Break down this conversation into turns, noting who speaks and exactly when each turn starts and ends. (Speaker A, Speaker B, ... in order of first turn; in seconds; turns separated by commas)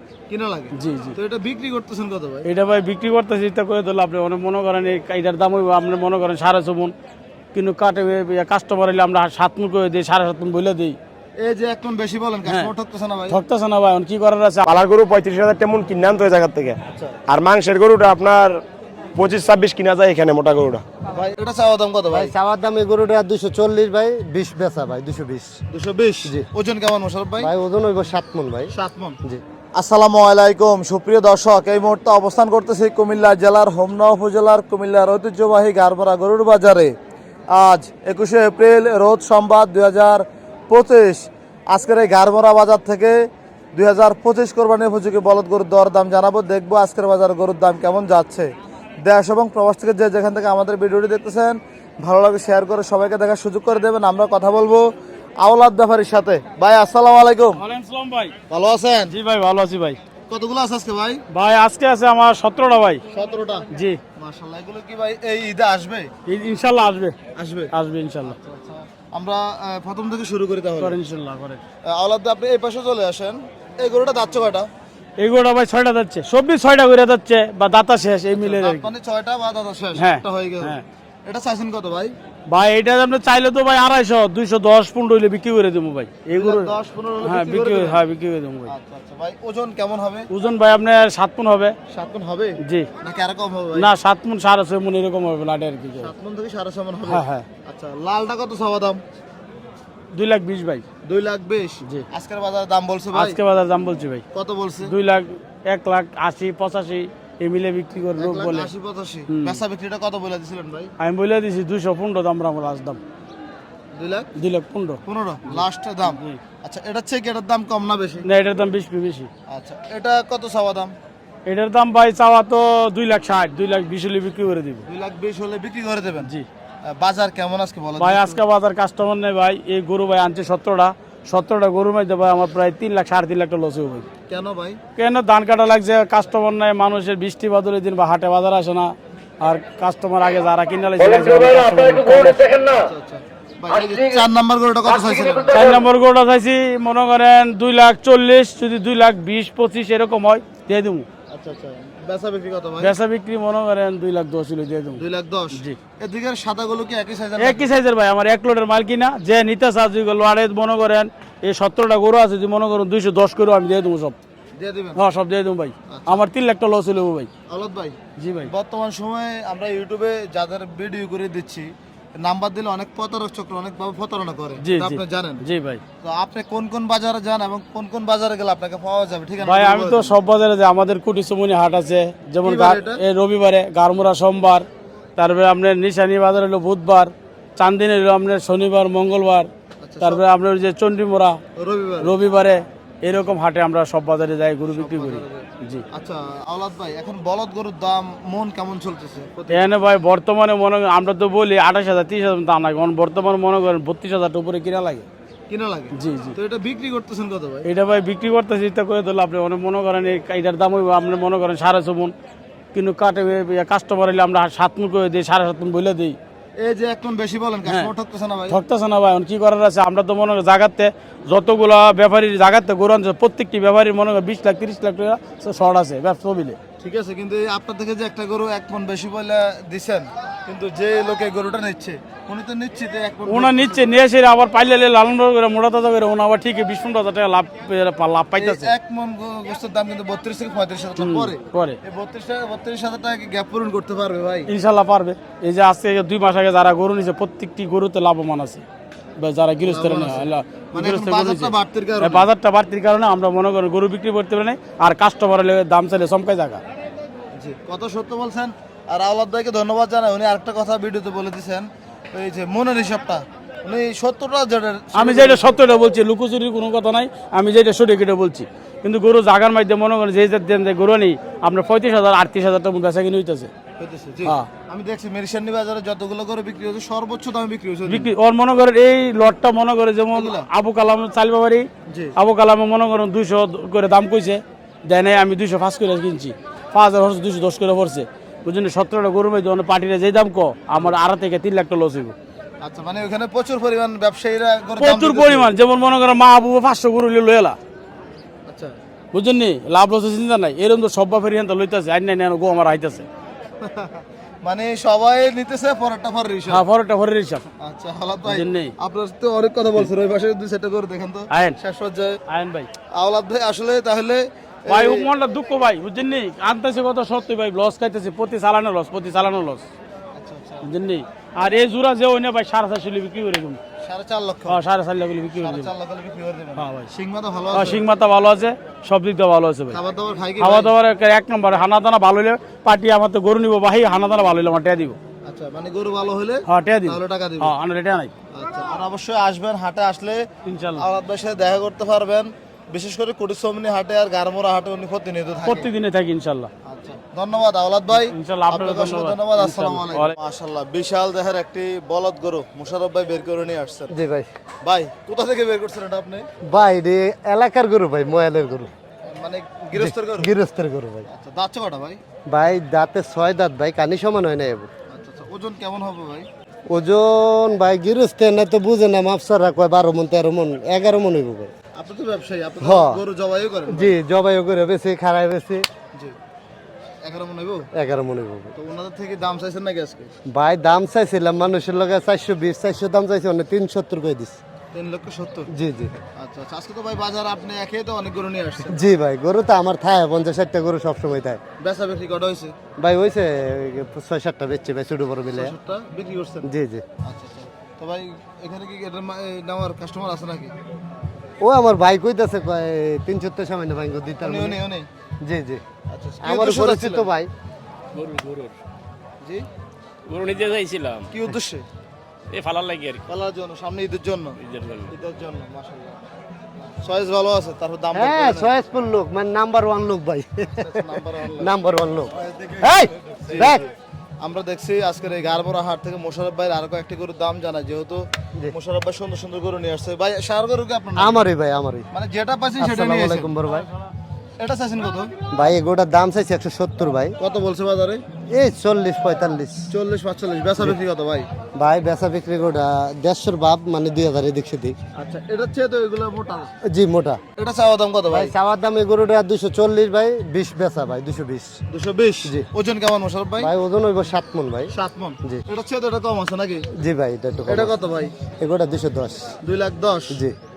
Speaker A: 0.3-2.5, Speaker B: 0.7-1.2, Speaker B: 2.4-6.9, Speaker B: 7.5-11.0, Speaker A: 11.4-13.4, Speaker B: 13.3-14.7, Speaker C: 14.6-18.6, Speaker C: 19.1-20.8, Speaker A: 21.1-22.3, Speaker D: 22.1-25.6, Speaker A: 25.7-27.5, Speaker D: 27.4-29.4, Speaker A: 28.7-29.2, Speaker A: 29.7-36.9, Speaker A: 37.5-43.1, Speaker A: 43.7-48.5, Speaker A: 49.0-54.9, Speaker A: 55.4-57.6, Speaker B: 57.6-58.3, Speaker A: 58.5-59.1, Speaker B: 59.1-60.0, Speaker A: 60.3-61.2, Speaker B: 61.3-63.0, Speaker A: 63.1-66.1, Speaker B: 63.7-64.0, Speaker B: 66.2-67.2, Speaker A: 67.3-67.7, Speaker B: 67.7-68.3, Speaker A: 68.2-71.0, Speaker B: 70.8-71.6, Speaker A: 71.9-74.7, Speaker B: 75.2-78.9, Speaker A: 78.3-82.1, Speaker B: 79.9-80.8, Speaker B: 82.5-86.7, Speaker A: 86.3-88.0, Speaker B: 87.2-88.7, Speaker A: 88.7-90.3, Speaker B: 90.3-91.8, Speaker A: 91.9-93.9, Speaker B: 92.6-92.9, Speaker B: 93.7-96.1, Speaker A: 96.0-99.0, Speaker B: 97.0-97.4, Speaker B: 100.1-100.8, Speaker A: 101.0-103.4, Speaker B: 103.1-104.2, Speaker A: 104.3-104.9, Speaker B: 104.8-108.7, Speaker A: 108.2-110.9, Speaker B: 109.3-109.6, Speaker B: 111.0-113.0, Speaker A: 113.9-114.3, Speaker B: 114.4-116.4, Speaker A: 115.0-118.2, Speaker B: 118.2-119.3, Speaker A: 119.5-120.9, Speaker B: 121.5-124.8, Speaker A: 124.9-126.3, Speaker A: 126.9-128.4, Speaker B: 128.0-134.1, Speaker A: 134.3-134.8, Speaker B: 134.9-142.5, Speaker A: 142.8-145.7, Speaker B: 145.5-151.1, Speaker A: 151.3-152.9, Speaker B: 152.8-155.0, Speaker A: 155.0-157.7, Speaker B: 157.4-164.2, Speaker A: 164.6-165.0, Speaker B: 164.9-167.3, Speaker A: 165.9-166.2, Speaker A: 167.5-168.0, Speaker B: 168.2-168.5, Speaker A: 168.5-171.7, Speaker A: 172.2-175.4, Speaker B: 174.6-175.8, Speaker A: 176.0-180.2, Speaker B: 179.4-184.7, Speaker A: 182.4-183.0, Speaker B: 185.2-189.5, Speaker A: 189.8-190.2, Speaker B: 190.0-191.4, Speaker A: 191.6-192.2, Speaker B: 192.0-195.8, Speaker A: 194.7-199.7, Speaker B: 199.5-205.1, Speaker A: 205.5-207.6, Speaker B: 205.9-206.3, Speaker B: 207.6-212.1, Speaker B: 212.7-216.2, Speaker A: 216.6-218.6, Speaker B: 218.5-226.6, Speaker A: 226.8-233.9, Speaker B: 233.3-238.7, Speaker A: 238.4-244.5, Speaker B: 241.0-241.8, Speaker B: 244.5-248.6, Speaker B: 249.2-256.6, Speaker A: 249.6-252.3, Speaker A: 257.4-265.6, Speaker B: 264.9-273.5, Speaker A: 273.8-278.1, Speaker B: 277.9-292.1, Speaker A: 280.1-280.5, Speaker A: 281.9-282.1, Speaker A: 292.6-295.5, Speaker B: 294.8-297.6, Speaker A: 298.5-298.8, Speaker B: 299.1-303.1, Speaker A: 303.6-306.6, Speaker B: 306.5-307.4, Speaker A: 307.6-312.2, Speaker B: 308.2-308.7, Speaker B: 311.3-311.6, Speaker B: 312.3-312.7, Speaker A: 312.9-315.1, Speaker B: 314.7-319.6, Speaker A: 320.1-320.7, Speaker B: 320.6-323.6, Speaker A: 323.8-324.6, Speaker B: 324.5-325.7, Speaker A: 325.4-327.8, Speaker B: 326.6-326.9, Speaker B: 327.5-329.8, Speaker A: 329.7-330.7, Speaker B: 330.4-335.0, Speaker A: 335.2-337.5, Speaker B: 336.5-338.1, Speaker A: 338.3-345.7, Speaker B: 340.4-340.8, Speaker B: 345.4-346.5, Speaker A: 346.6-353.9, Speaker B: 347.9-350.1, Speaker D: 353.9-354.3, Speaker A: 354.6-356.3, Speaker D: 356.4-358.7, Speaker A: 359.0-360.3, Speaker D: 359.7-361.1, Speaker A: 361.1-362.0, Speaker D: 362.3-364.7, Speaker A: 364.9-366.3, Speaker D: 366.7-371.5, Speaker A: 371.7-373.9, Speaker D: 372.6-373.0, Speaker D: 373.7-375.6, Speaker A: 377.0-377.7, Speaker D: 377.7-378.5, Speaker A: 378.6-380.1, Speaker D: 380.3-384.4, Speaker A: 384.7-385.5, Speaker D: 385.5-386.0, Speaker A: 386.1-388.8, Speaker D: 388.6-391.4, Speaker A: 391.6-392.5, Speaker D: 392.8-395.5, Speaker A: 395.3-396.5, Speaker D: 396.4-396.8, Speaker A: 397.0-400.5, Speaker D: 401.4-404.6, Speaker A: 404.2-404.9, Speaker D: 405.2-405.6, Speaker A: 405.9-407.1, Speaker D: 406.2-407.3, Speaker E: 410.1-411.0, Speaker A: 411.1-411.6, Speaker E: 412.3-413.0, Speaker A: 413.1-416.0, Speaker E: 414.5-414.8, Speaker A: 416.8-418.5, Speaker D: 417.9-423.6, Speaker A: 420.6-421.5, Speaker A: 422.3-423.7, Speaker A: 424.2-431.2, Speaker D: 430.9-431.9, Speaker A: 431.9-433.3, Speaker D: 432.6-433.7, Speaker A: 434.4-435.1, Speaker D: 435.3-437.2, Speaker A: 437.2-438.0, Speaker D: 438.3-439.7, Speaker A: 439.7-441.3, Speaker D: 441.5-444.8, Speaker A: 444.9-446.5, Speaker D: 446.6-447.2, Speaker A: 447.4-448.3, Speaker D: 448.1-451.6, Speaker A: 451.7-453.5, Speaker D: 453.4-455.4, Speaker A: 454.7-456.7, Speaker D: 456.7-457.7, Speaker A: 457.5-458.1, Speaker D: 458.4-459.3, Speaker A: 459.4-460.2, Speaker D: 460.1-460.4